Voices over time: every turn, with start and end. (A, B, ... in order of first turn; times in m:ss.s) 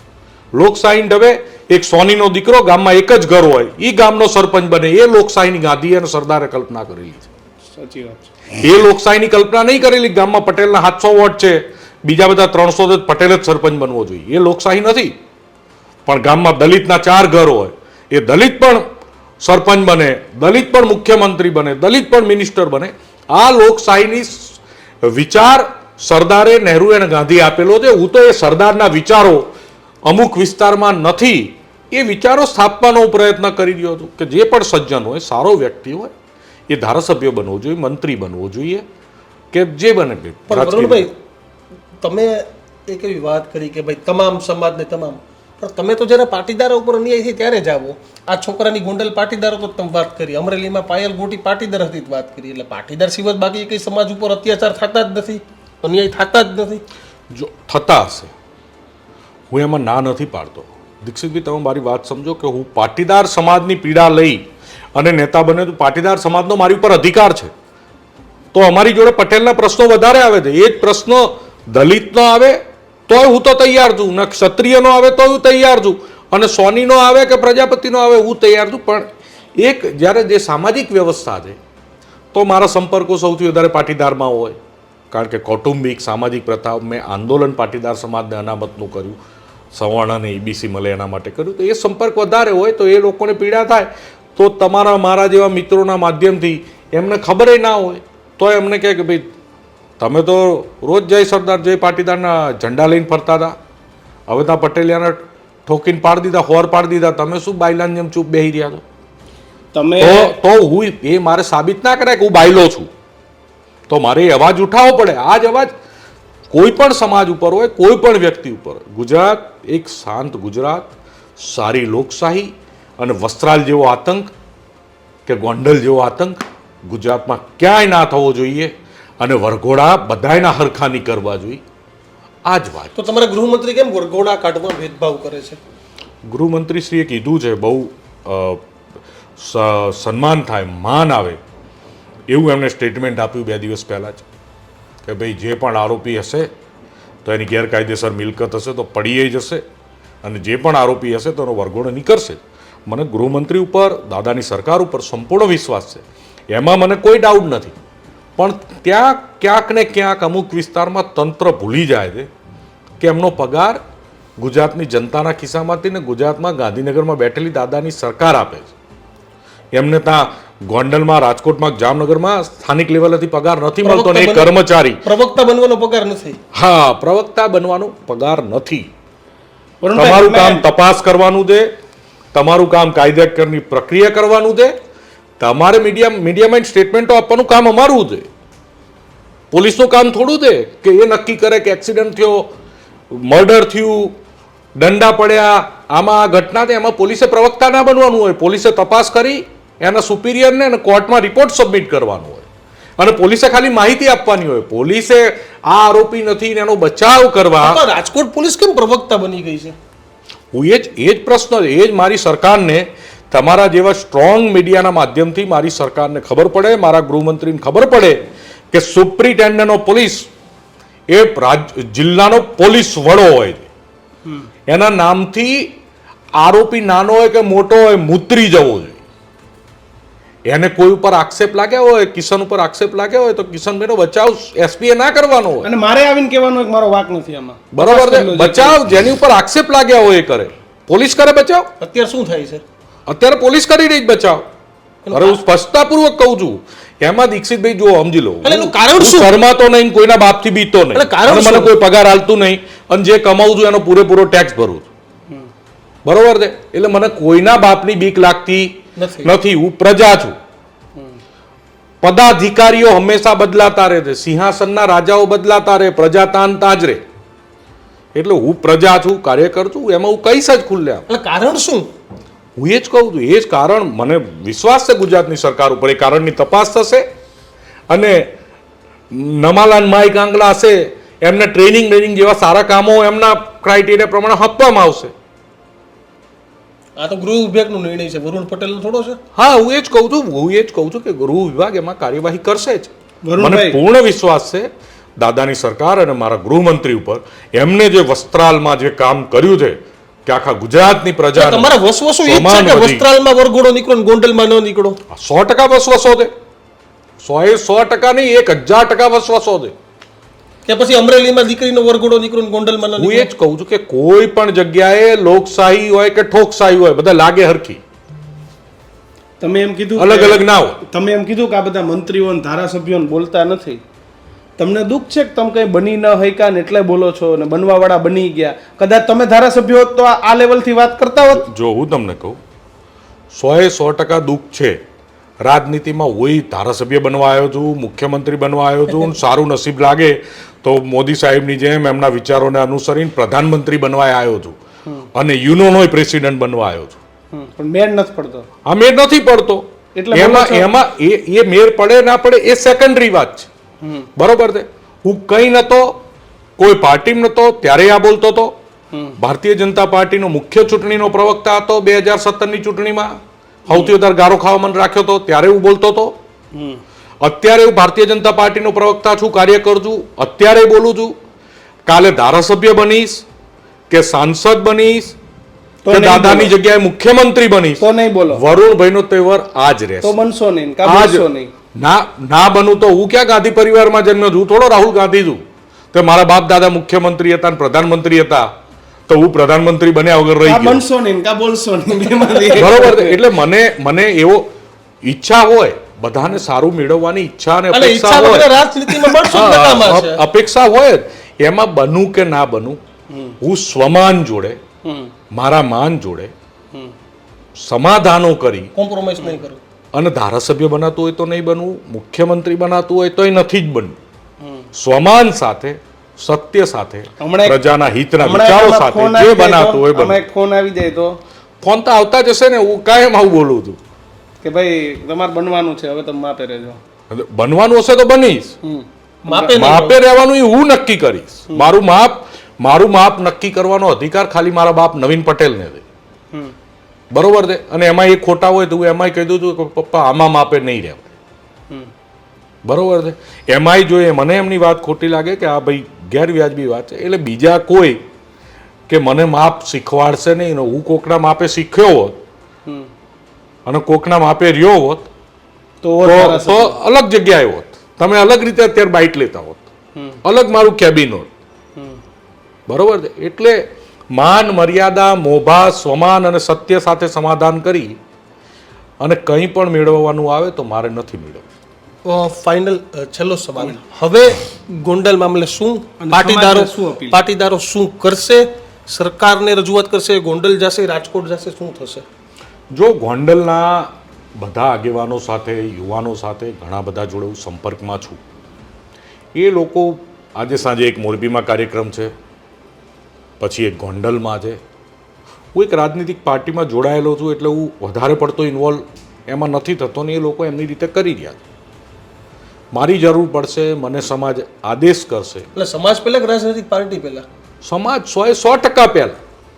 0:00.6-0:07.3 A
0:07.7-0:08.3 B
0:08.6-0:15.1 A
0:16.1-0:18.8 A
0:19.4-0:29.5 A
0:30.1-0:36.1 A
0:36.7-0:38.8 A
0:39.5-0:41.1 A
0:40.5-0:41.1 C
0:42.0-0:56.8 C
0:57.3-0:58.3 A
0:59.5-1:07.5 A
1:08.5-1:19.1 A
1:19.6-1:21.6 A
1:22.3-1:24.6 A
1:25.1-1:29.2 A
1:29.7-1:39.3 A
1:40.0-1:43.6 A
1:44.3-1:48.8 A
1:49.7-1:50.3 B
1:50.0-1:52.9 A
1:53.9-1:55.7 A
1:56.5-2:04.3 A
2:05.3-2:11.6 A
2:12.5-2:13.0 A
2:13.0-2:15.6 C
2:16.3-2:18.6 A
2:19.4-2:21.4 A
2:22.3-2:24.2 A
2:25.1-2:26.5 A
2:27.2-2:29.6 A
2:30.2-2:37.8 A
2:38.4-2:42.3 A
2:43.0-2:43.8 A
2:44.4-2:48.7 A
2:49.8-2:55.0 A
2:53.8-2:56.4 C
2:56.5-2:58.9 A
2:59.8-3:00.6 B
3:00.0-3:01.7 A
3:02.3-3:04.8 A
3:05.4-3:08.3 A
3:09.5-3:12.5 A
3:13.1-3:14.2 A
3:14.8-3:22.5 A
3:23.0-3:27.8 A
3:27.6-3:29.8 C
3:30.5-3:40.3 A
3:41.1-3:43.7 A
3:44.7-3:45.7 A
3:46.4-3:49.0 A
3:50.5-3:55.7 A
3:55.6-3:58.8 B
3:57.7-4:01.7 A
4:01.8-4:02.6 C
4:03.1-4:04.4 A
4:05.0-4:05.4 C
4:05.1-4:14.9 A
4:08.4-4:09.3 C
4:10.9-4:11.7 C
4:16.0-4:20.4 A
4:19.0-4:19.3 C
4:22.0-4:27.0 A
4:28.2-4:31.1 A
4:31.1-4:31.9 C
4:32.6-4:37.1 A
4:37.9-4:38.3 A
4:39.1-4:45.1 A
4:47.0-4:49.2 C
4:49.4-4:54.7 A
4:53.2-4:53.8 B
4:55.2-5:01.7 A
5:01.4-5:05.0 C
5:02.3-5:03.0 A
5:05.1-5:06.3 A
5:07.2-5:09.7 A
5:10.7-5:13.3 C
5:13.0-5:17.8 A
5:19.4-5:23.8 B
5:20.0-5:20.8 A
5:24.6-5:31.5 B
5:31.3-5:32.4 A
5:33.3-5:34.8 A
5:35.4-5:44.6 A
5:45.1-5:47.0 A
5:47.3-5:48.5 B
5:48.7-5:53.5 A
5:50.0-5:50.7 B
5:53.8-5:54.1 B
5:54.2-5:56.0 A
5:56.6-5:58.6 A
5:59.2-6:06.2 A
6:03.7-6:04.0 B
6:06.5-6:06.8 B
6:07.2-6:11.2 A
6:11.9-6:13.2 A
6:13.9-6:15.2 A
6:15.8-6:16.5 B
6:15.9-6:20.2 A
6:17.8-6:18.4 B
6:20.0-6:21.5 B
6:20.8-6:25.4 A
6:25.9-6:28.5 A
6:29.1-6:30.8 A
6:30.4-6:33.2 B
6:32.6-6:34.5 A
6:35.0-6:38.5 A
6:37.7-6:40.2 C
6:39.1-6:42.8 A
6:43.1-6:43.4 B
6:43.4-6:44.6 A
6:44.8-6:45.1 B
6:45.3-6:46.3 A
6:47.6-6:48.7 A
6:48.8-6:49.6 C
6:49.9-6:54.0 A
6:54.4-6:54.7 B
6:54.7-7:00.2 A
6:57.2-6:57.6 B
6:58.2-7:01.2 B
7:01.6-7:03.8 A
7:04.4-7:06.8 B
7:07.1-7:08.6 A
7:08.6-7:09.6 B
7:09.3-7:10.0 C
7:09.4-7:15.8 A
7:17.1-7:21.1 A
7:22.6-7:28.0 A
7:28.9-7:32.2 A
7:33.7-7:35.1 A
7:35.8-7:36.8 B
7:36.0-7:39.7 A
7:40.0-7:40.2 B
7:40.2-7:41.3 A
7:42.7-7:48.0 A
7:49.0-7:51.4 A
7:52.0-8:02.0 C
7:56.0-7:57.2 B
8:02.7-8:08.2 A
8:09.4-8:12.1 A
8:13.4-8:14.6 A
8:15.5-8:21.4 A
8:22.7-8:25.5 A
8:25.6-8:27.2 C
8:27.6-8:29.2 A